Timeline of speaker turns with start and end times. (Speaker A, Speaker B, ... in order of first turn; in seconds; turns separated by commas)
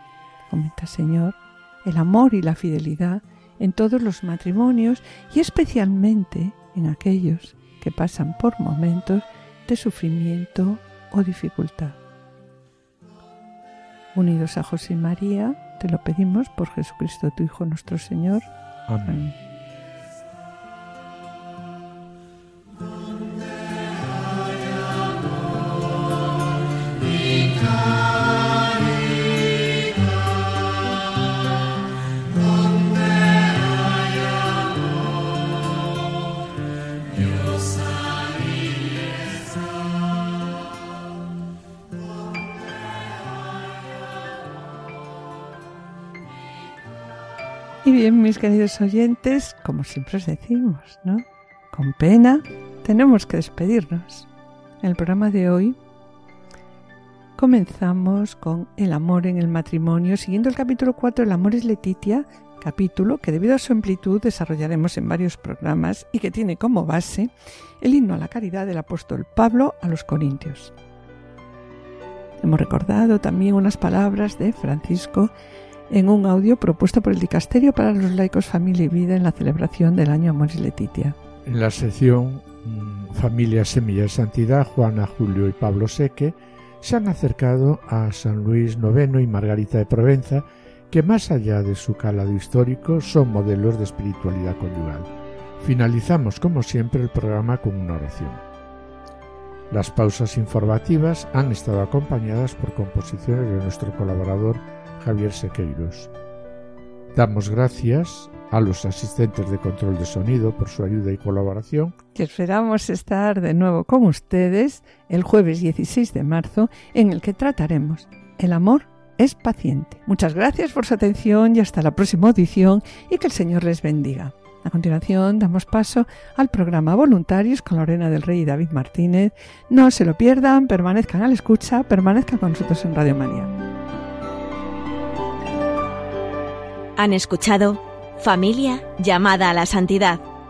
Speaker A: 0.5-12.0, Speaker A: 14.2-18.5, Speaker B: 18.9-19.2, Speaker A: 19.1-19.4, Speaker A: 47.8-54.3, Speaker A: 54.8-55.8, Speaker A: 57.4-70.7, Speaker A: 72.4-75.3, Speaker A: 75.9-81.2, Speaker B: 81.5-95.1, Speaker B: 95.6-98.4, Speaker B: 99.7-106.1, Speaker B: 107.1-112.0, Speaker A: 112.1-133.5, Speaker C: 137.0-140.2